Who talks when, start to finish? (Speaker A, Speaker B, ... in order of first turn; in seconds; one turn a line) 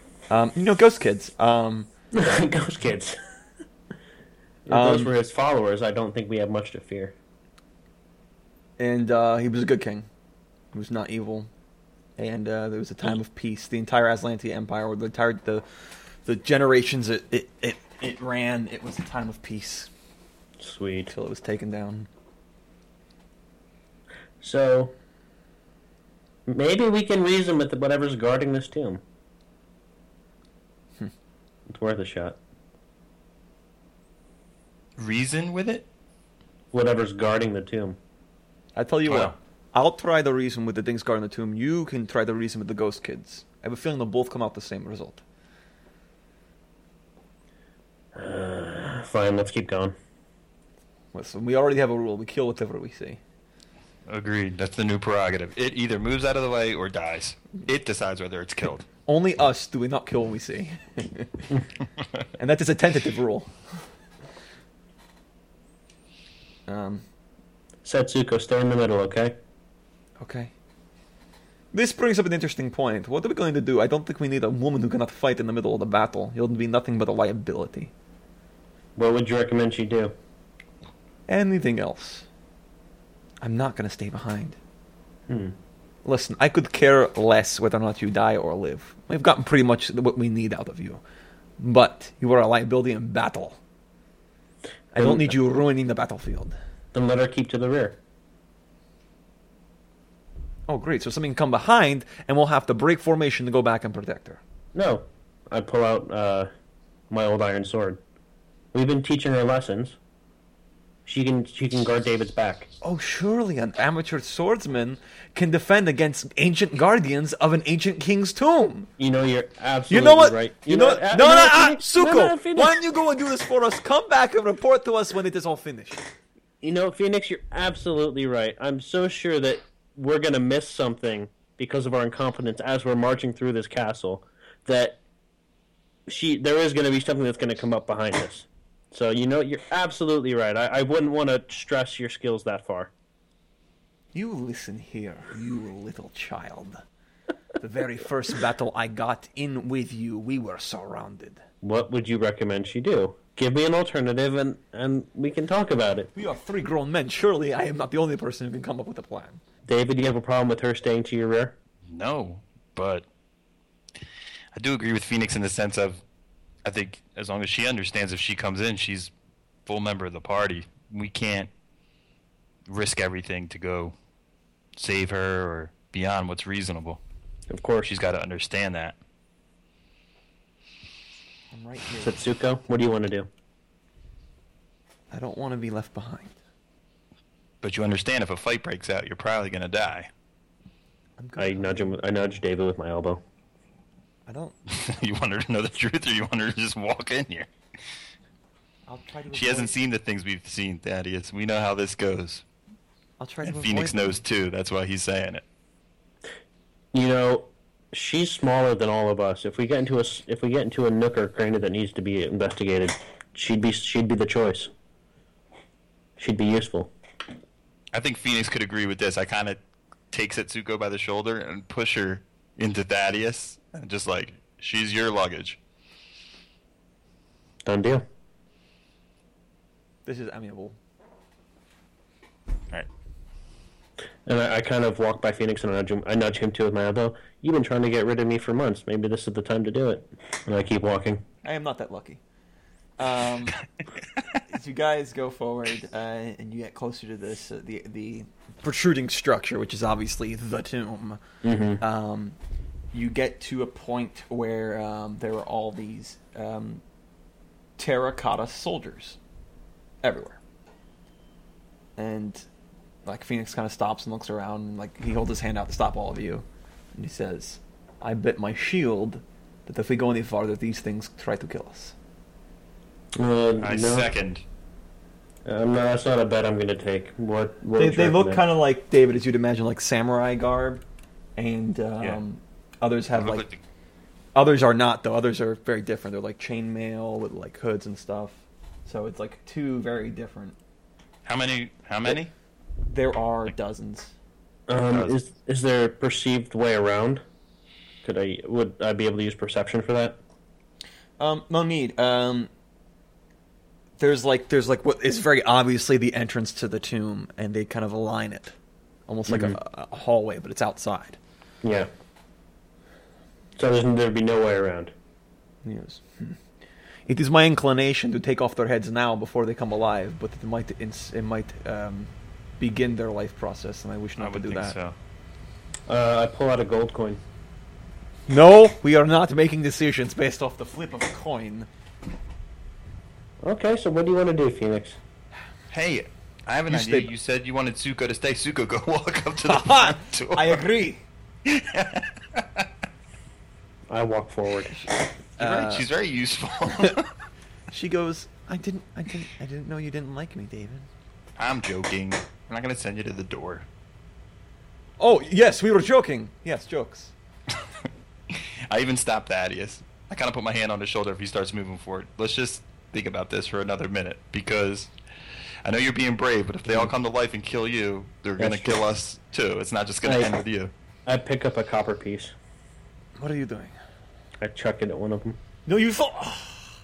Speaker A: 0.3-1.9
Speaker B: 2.1-3.2
Speaker B: 4.7-7.1
Speaker A: 4.7-5.1
Speaker A: 8.8-10.1
Speaker A: 10.7-11.5
Speaker A: 12.2-15.6
Speaker A: 16.2-19.9
Speaker B: 20.6-21.1
Speaker A: 21.1-22.1
Speaker B: 24.4-24.9
Speaker B: 26.5-29.0
Speaker B: 31.7-32.4
Speaker C: 35.0-35.9
Speaker B: 36.7-38.0
Speaker A: 38.8-45.2
Speaker C: 39.1-39.3
Speaker B: 48.1-49.9
Speaker A: 51.1-53.2
Speaker C: 54.1-58.9
Speaker A: 59.0-61.5
Speaker A: 62.4-63.5
Speaker A: 66.7-67.0
Speaker B: 67.8-69.4
Speaker A: 70.2-70.5
Speaker A: 71.7-77.9
Speaker B: 79.0-80.1
Speaker A: 81.3-82.2
Speaker A: 83.4-84.6
Speaker B: 85.3-85.5
Speaker A: 86.0-91.0
Speaker A: 91.6-93.6
Speaker A: 94.9-96.5
Speaker B: 95.0-95.3
Speaker B: 96.9-98.0
Speaker A: 100.7-104.4
Speaker B: 104.7-106.5
Speaker B: 107.1-108.0
Speaker B: 108.7-110.0
Speaker B: 111.0-112.7
Speaker A: 112.8-118.9
Speaker B: 119.0-122.8
Speaker A: 119.9-126.0
Speaker B: 126.6-135.0
Speaker B: 136.1-142.9
Speaker A: 144.1-146.8
Speaker A: 147.6-151.4
Speaker B: 151.6-156.1
Speaker A: 156.1-159.4
Speaker B: 159.7-161.6
Speaker C: 161.9-163.1
Speaker C: 164.5-166.0
Speaker C: 166.6-169.1
Speaker C: 169.7-171.5
Speaker C: 172.7-173.9
Speaker C: 174.8-177.0
Speaker B: 177.5-177.9
Speaker C: 177.8-179.0
Speaker A: 181.5-182.3
Speaker B: 182.0-183.3
Speaker A: 185.1-186.4
Speaker C: 187.6-190.1
Speaker A: 191.2-192.0
Speaker B: 191.4-193.2
Speaker A: 194.3-194.6
Speaker C: 194.7-197.5
Speaker A: 198.9-199.7
Speaker C: 199.3-202.4
Speaker A: 203.2-204.2
Speaker C: 203.4-205.4
Speaker B: 206.9-214.7
Speaker B: 216.2-216.9
Speaker C: 217.9-219.6
Speaker C: 220.1-225.6
Speaker B: 227.6-228.0
Speaker A: 230.1-230.8
Speaker B: 234.2-241.2
Speaker A: 241.4-242.2
Speaker A: 243.0-243.6
Speaker A: 244.5-251.2
Speaker B: 251.4-251.8
Speaker A: 251.8-252.4
Speaker A: 252.9-256.8
Speaker A: 257.8-259.2
Speaker A: 260.0-260.4
Speaker A: 262.0-262.4
Speaker A: 263.0-271.9
Speaker B: 273.1-274.1
Speaker C: 273.6-274.4
Speaker B: 275.4-278.4
Speaker A: 277.8-280.8
Speaker A: 281.4-283.4
Speaker C: 283.1-283.6
Speaker A: 284.3-290.6
Speaker C: 291.2-292.3
Speaker A: 292.9-294.1
Speaker B: 294.7-297.2
Speaker B: 298.0-300.2
Speaker A: 301.2-302.5
Speaker A: 304.0-308.5
Speaker A: 309.1-311.2
Speaker B: 309.3-309.6
Speaker B: 311.6-311.9
Speaker B: 313.6-314.9
Speaker A: 315.6-316.4
Speaker A: 317.1-324.8
Speaker C: 324.2-324.9
Speaker B: 325.9-327.2
Speaker A: 328.3-331.7
Speaker B: 333.4-335.0
Speaker C: 335.7-340.6
Speaker A: 336.7-337.1
Speaker A: 339.5-341.0
Speaker C: 341.4-342.6
Speaker B: 343.9-344.7
Speaker A: 345.4-345.8
Speaker C: 345.4-347.1
Speaker A: 347.7-350.9
Speaker C: 351.4-353.6
Speaker A: 355.0-357.1
Speaker C: 358.3-364.9
Speaker C: 365.6-370.7
Speaker B: 368.4-368.8
Speaker B: 370.0-370.3
Speaker B: 371.1-372.3
Speaker A: 373.2-373.7
Speaker B: 374.4-375.4
Speaker A: 375.7-376.8